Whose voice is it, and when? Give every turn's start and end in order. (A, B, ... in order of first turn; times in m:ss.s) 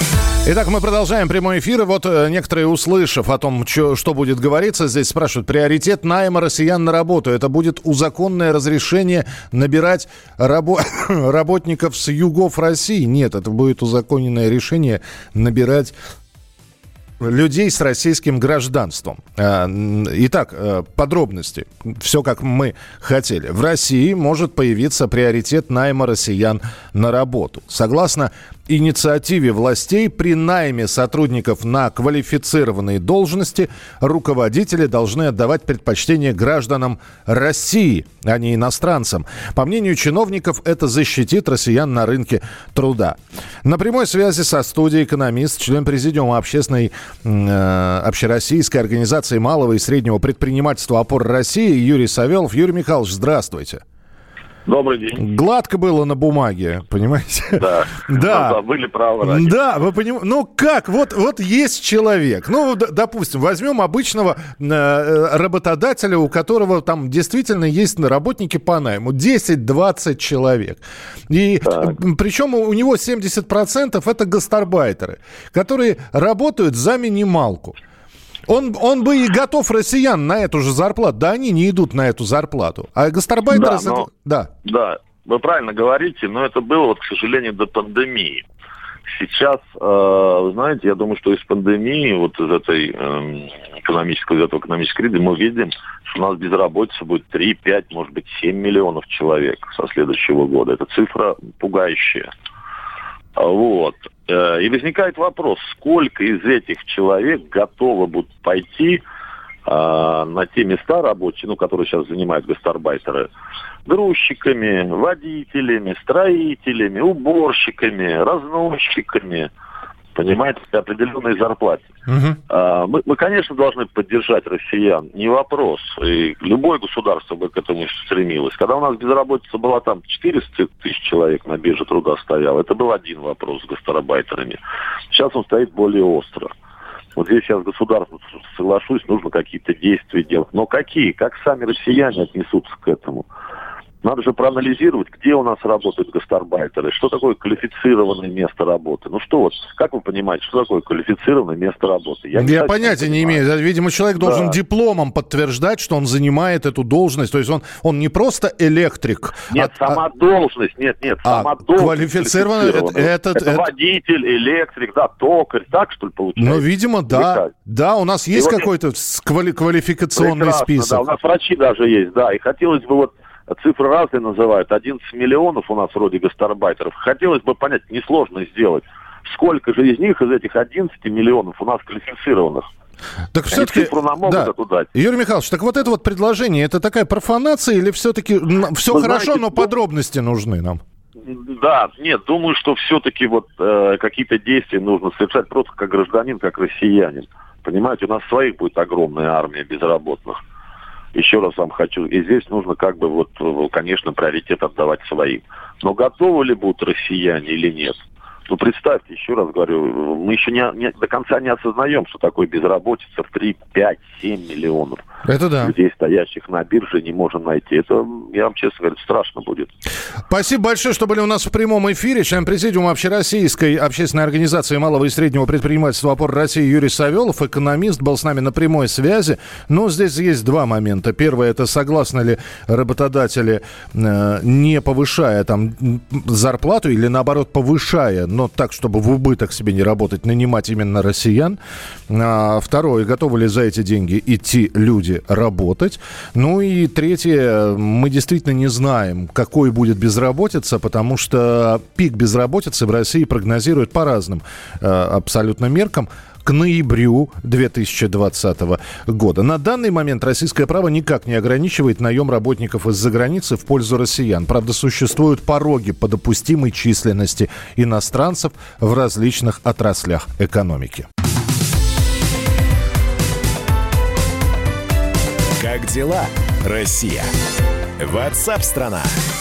0:00.4-0:15.9 A
0:17.2-0:53.8 A
0:54.7-0:55.2 B
0:55.2-0:58.6 A
0:57.6-0:59.6 B
0:59.2-1:17.7 A
1:11.7-1:11.9 B
1:18.5-1:24.5 A
1:23.5-1:24.1 B
1:24.6-1:28.4 B
1:29.1-1:42.3 B
1:43.4-1:49.0 B
1:49.6-1:53.3 B
1:53.8-1:59.5 B
2:00.1-2:01.9 B
2:02.1-2:02.4 A
2:02.5-2:14.6 B
2:15.1-2:16.5 B
2:17.2-2:23.2 B
2:24.0-2:33.4 B
2:32.3-2:40.0 A
2:34.2-2:34.6 B
2:39.5-2:47.5 B
2:41.2-2:43.6 A
2:46.4-2:51.0 A
2:48.3-2:48.7 B
2:50.2-3:02.6 B
3:03.3-3:10.8 A
3:03.5-3:04.9 B
3:08.9-3:09.7 B
3:11.2-3:20.4 B
3:21.1-3:35.0 B
3:35.2-3:35.7 A
3:35.6-3:39.7 B
3:40.3-4:31.1 A
4:35.6-4:37.3 C
4:38.0-4:39.1 C